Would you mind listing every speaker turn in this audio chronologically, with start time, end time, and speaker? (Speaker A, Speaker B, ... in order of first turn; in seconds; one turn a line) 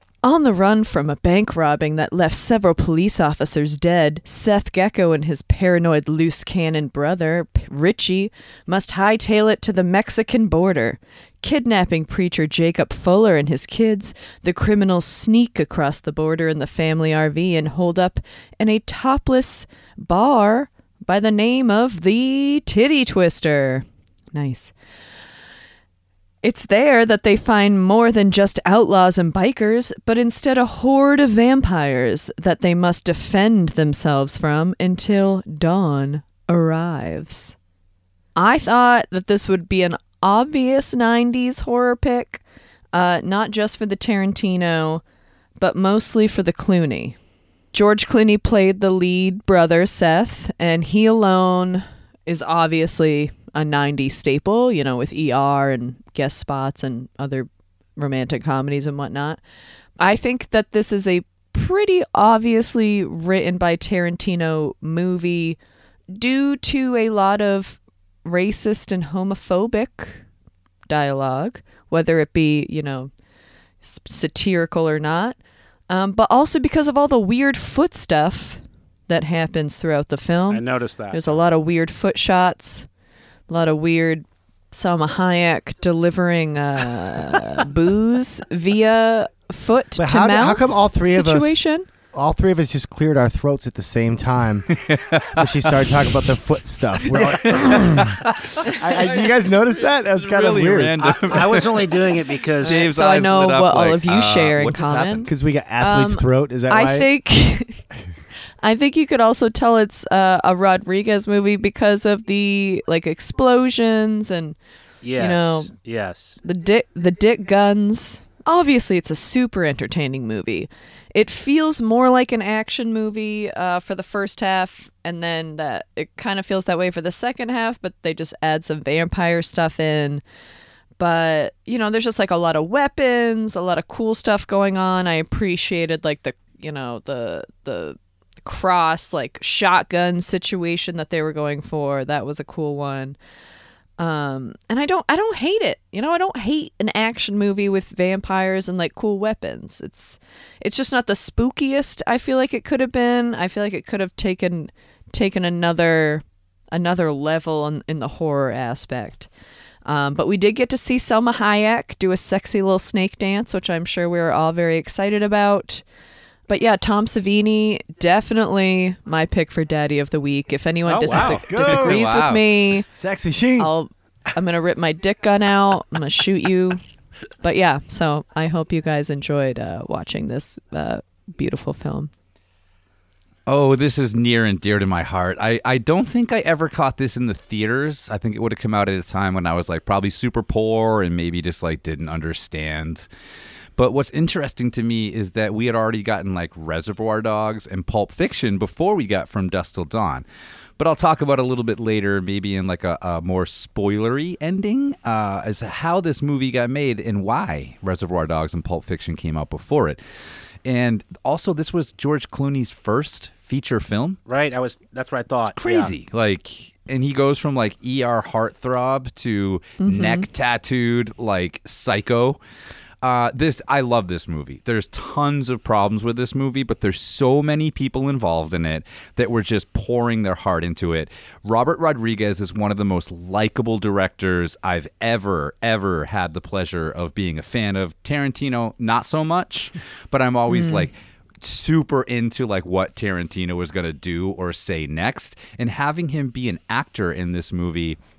Speaker A: 0.2-24.7
Speaker A: 26.4-37.5
Speaker A: 38.4-42.4
Speaker A: 42.9-45.0
Speaker A: 45.6-47.1
Speaker A: 47.7-59.4
Speaker A: 60.0-65.6
Speaker A: 66.1-70.2
Speaker A: 70.9-73.1
Speaker A: 73.8-75.4
Speaker A: 75.9-82.9
Speaker B: 80.5-81.4
Speaker A: 83.5-91.9
Speaker C: 90.0-94.8
Speaker D: 94.7-96.0
Speaker C: 95.3-101.3
Speaker D: 97.1-105.3
Speaker B: 101.0-102.8
Speaker A: 102.6-107.8
Speaker C: 105.2-107.1
Speaker A: 108.6-114.6
Speaker B: 115.0-116.4
Speaker A: 115.2-115.7
Speaker A: 116.4-130.2
Speaker A: 131.0-143.2
Speaker A: 144.0-159.3
Speaker A: 159.8-165.8
Speaker A: 166.5-172.9
Speaker B: 170.8-171.4
Speaker C: 171.1-172.1
Speaker D: 171.5-172.4
Speaker C: 172.8-173.7
Speaker A: 173.6-176.8
Speaker A: 177.4-182.1
Speaker D: 183.5-193.1
Speaker D: 193.8-200.2
Speaker D: 200.8-210.0
Speaker D: 210.6-214.2
Speaker B: 214.3-215.9
Speaker D: 215.6-222.4
Speaker A: 219.8-220.3
Speaker D: 223.0-248.0
Speaker A: 240.5-240.9